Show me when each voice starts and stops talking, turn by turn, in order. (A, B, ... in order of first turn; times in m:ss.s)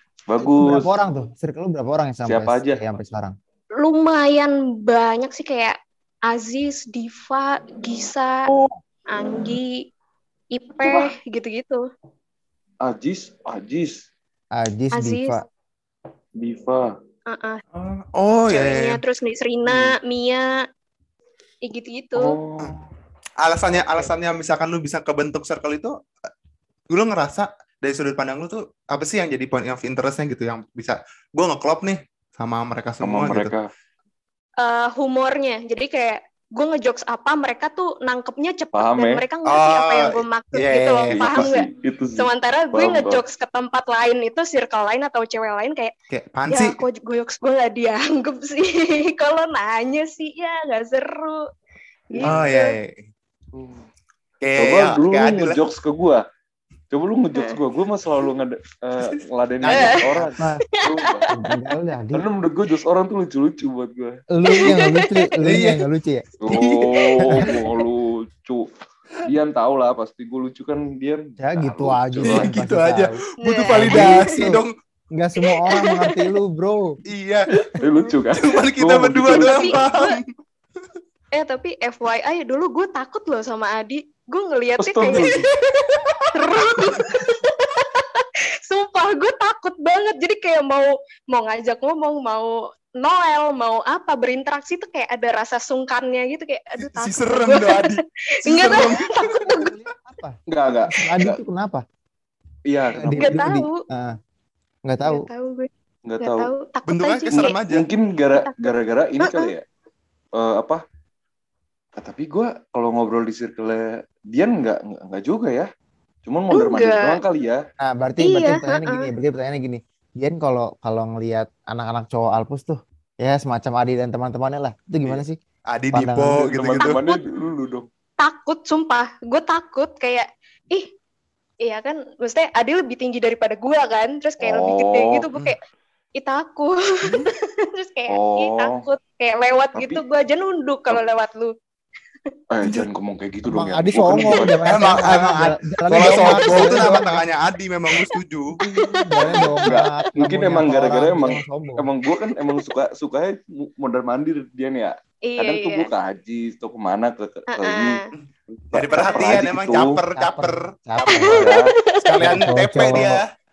0:00.3-0:01.0 A
0:00.4-0:03.3 B
0:02.2-0:02.8 A
0:03.8-0:05.8 C
0:06.3-0:08.4 C
0:08.5-0:08.7 A
0:09.1-0:09.7 C
0:10.6-0:11.8 C
0:10.8-0:11.1 A
0:12.8-0:14.0 A
0:14.6-0:15.4 B
0:14.9-0:15.4 C
0:16.4-0:16.9 A
0:17.3-0:17.6 C
0:17.8-0:19.0 D
0:18.5-0:20.5 C
0:19.7-0:19.9 A
0:21.6-0:22.4 C
0:22.2-0:22.9 A
0:23.4-0:25.9 D
0:26.9-0:33.5 D
0:33.0-0:33.7 A
0:34.6-0:45.9 C
0:38.8-0:39.2 A
0:39.4-0:41.5 D
0:41.1-0:43.2 A
0:46.1-0:46.8 D
0:46.5-0:51.4 C
0:52.1-0:52.7 C
0:52.1-0:52.4 A
0:52.2-0:53.0 D
0:53.5-0:53.9 A
0:54.4-0:55.6 D
0:54.6-0:56.2 A
0:56.9-1:01.2 A
0:59.0-1:00.3 D
0:59.6-1:00.0 C
1:00.4-1:00.6 B
1:00.8-1:01.5 C
1:01.3-1:02.2 B
1:02.1-1:04.2 A
1:04.3-1:06.3 B
1:04.5-1:05.3 C
1:05.4-1:05.8 D
1:06.4-1:08.6 A
1:06.5-1:06.9 D
1:07.2-1:07.5 B
1:09.2-1:12.5 A
1:11.4-1:13.2 B
1:12.3-1:14.7 D
1:13.4-1:14.5 C
1:13.7-1:14.6 B
1:15.1-1:17.0 B
1:15.4-1:16.2 C
1:17.1-1:17.5 D
1:17.6-1:19.8 A
1:18.3-1:20.2 D
1:19.3-1:20.2 C
1:21.3-1:25.5 C
1:24.8-1:25.5 A
1:25.2-1:27.2 D
1:26.3-1:39.7 C
1:36.8-1:39.7 D
1:39.4-1:40.4 B
1:40.5-1:41.4 A
1:40.9-1:41.8 B
1:42.7-1:43.4 A
1:43.0-1:44.1 B
1:43.2-1:43.8 C
1:44.9-1:45.3 B
1:45.0-1:45.7 C
1:46.0-1:46.5 A
1:46.2-1:47.6 C
1:46.9-1:47.9 D
1:47.4-1:49.6 A
1:48.4-1:48.7 C
1:49.2-1:49.5 C
1:50.4-1:50.8 A
1:52.0-1:55.7 A
1:56.2-1:57.6 A
1:56.5-1:57.2 C
1:57.8-2:05.4 B
1:58.2-1:59.1 C
2:05.7-2:07.0 D
2:05.9-2:06.5 B
2:06.4-2:07.9 A
2:06.8-2:07.2 C
2:08.2-2:10.9 C
2:11.6-2:15.6 C
2:14.4-2:15.2 A
2:16.2-2:21.5 C
2:18.1-2:18.8 A
2:19.7-2:20.0 A
2:22.5-2:24.6 A
2:23.4-2:27.2 B
2:24.6-2:28.6 D
2:27.9-2:30.0 C
2:28.6-2:31.9 B
2:29.6-2:39.9 A
2:32.2-2:32.6 C
2:35.2-2:35.9 C
2:37.5-2:38.1 C
2:38.7-2:41.3 D
2:39.0-2:39.3 C
2:40.2-2:41.4 B
2:41.1-2:42.4 C
2:41.3-2:41.7 A
2:42.0-2:43.3 D
2:42.2-2:43.2 B